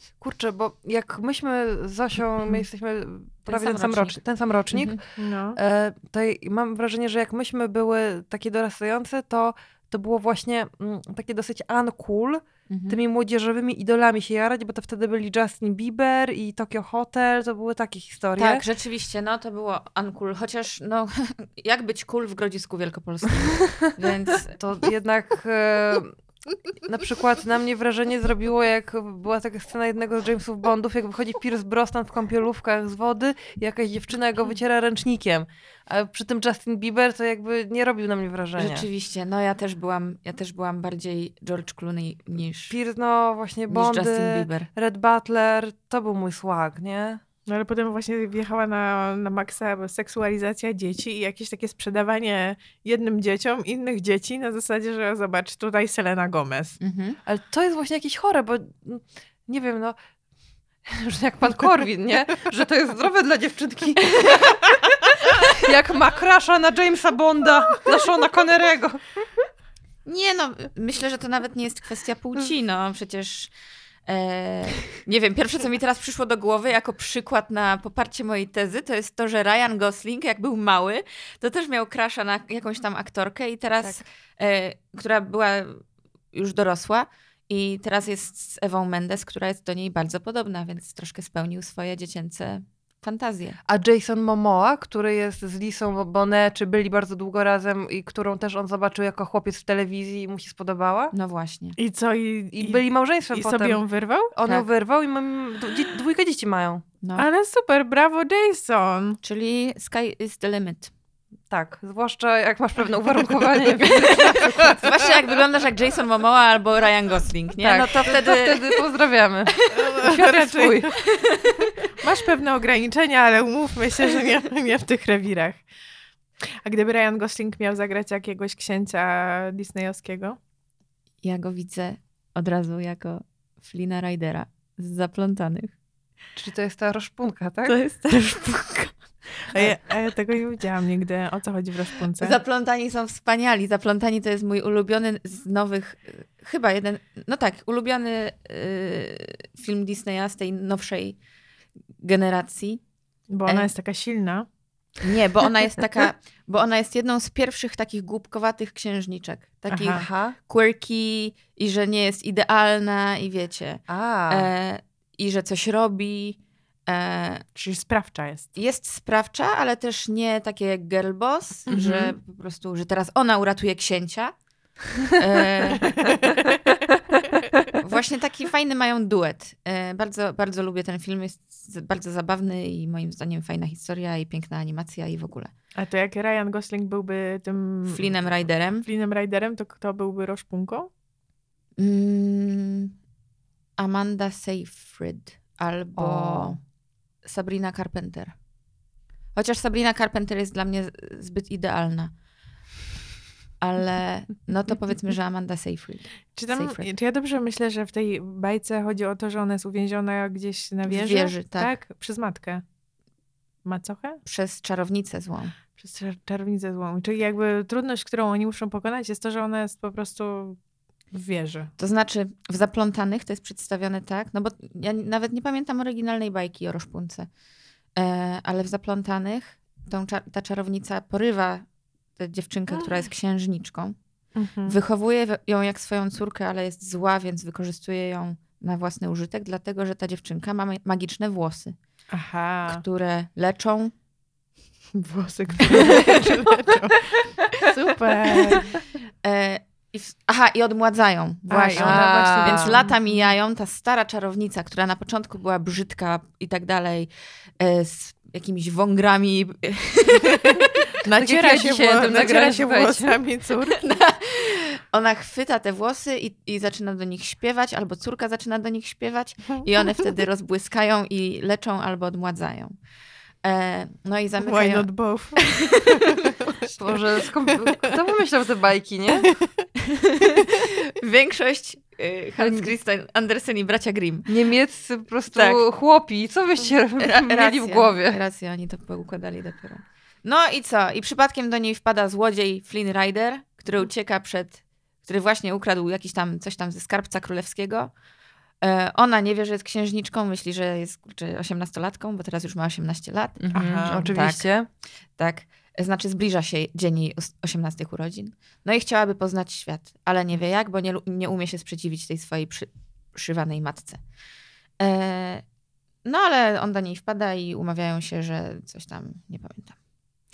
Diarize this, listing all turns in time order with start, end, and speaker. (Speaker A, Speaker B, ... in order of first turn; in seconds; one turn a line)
Speaker A: 0.2-18.6
Speaker B: 3.5-4.2
Speaker B: 4.7-5.0
Speaker C: 5.2-5.6
Speaker B: 12.7-13.0
Speaker B: 18.4-24.6
Speaker A: 24.5-26.2
Speaker A: 26.8-38.9
Speaker B: 38.6-42.8
Speaker A: 42.7-47.2
Speaker B: 43.7-44.7
Speaker C: 47.5-56.8
Speaker B: 56.8-57.2
Speaker A: 57.2-60.0
Speaker A: 60.9-64.5
Speaker A: 65.5-69.0
Speaker B: 70.0-73.5
Speaker B: 74.1-93.6
Speaker A: 93.7-101.1
Speaker B: 101.1-101.8
Speaker C: 101.8-104.3
Speaker A: 102.5-106.8
Speaker C: 107.2-109.2
Speaker B: 109.2-110.9
Speaker A: 111.5-115.2
Speaker B: 114.0-118.8
Speaker A: 117.6-121.0
Speaker C: 119.7-121.0
Speaker B: 121.2-121.5
Speaker C: 122.0-125.6
Speaker C: 126.6-130.4
Speaker B: 131.2-135.7
Speaker A: 136.4-137.8
Speaker B: 137.7-139.0
Speaker C: 139.5-142.4
Speaker B: 142.2-151.2
Speaker B: 152.0-152.8
Speaker C: 153.3-154.5
Speaker B: 155.0-167.4
Speaker C: 159.7-160.1
Speaker A: 160.0-160.3
Speaker A: 163.9-164.5
Speaker C: 167.6-168.5
Speaker B: 168.6-174.3
Speaker A: 171.7-172.1
Speaker B: 175.0-176.2
Speaker C: 175.8-176.5
Speaker B: 177.7-185.5
Speaker C: 185.8-188.2
Speaker B: 187.9-188.9
Speaker C: 188.8-190.9
Speaker B: 191.8-193.0
Speaker B: 193.8-196.6
Speaker A: 196.0-196.6
Speaker B: 197.2-198.3
Speaker B: 199.3-202.1
Speaker B: 203.6-206.9
Speaker C: 206.3-212.6
Speaker B: 210.9-211.8
Speaker C: 213.6-214.2
Speaker B: 214.2-215.6
Speaker C: 215.8-220.6
Speaker C: 221.1-221.7
Speaker B: 221.8-227.3
Speaker B: 227.9-234.0
Speaker C: 234.3-234.8
Speaker B: 234.7-241.8
Speaker C: 242.1-242.8
Speaker B: 242.7-243.9
Speaker C: 244.9-248.7
Speaker B: 249.2-260.6
Speaker C: 251.5-253.3
Speaker A: 251.7-252.8
Speaker C: 260.4-263.8
Speaker A: 261.2-263.2
Speaker B: 263.8-272.8
Speaker B: 273.4-275.7
Speaker C: 274.4-276.0
Speaker A: 276.8-279.3
Speaker C: 279.2-279.6
Speaker B: 279.9-284.4
Speaker A: 282.4-282.7
Speaker A: 284.3-288.2
Speaker B: 285.3-285.6
Speaker B: 287.0-297.9
Speaker B: 298.6-304.5
Speaker A: 303.4-304.7
Speaker C: 303.5-304.1
Speaker B: 305.2-314.0
Speaker B: 314.8-315.5
Speaker B: 316.0-319.8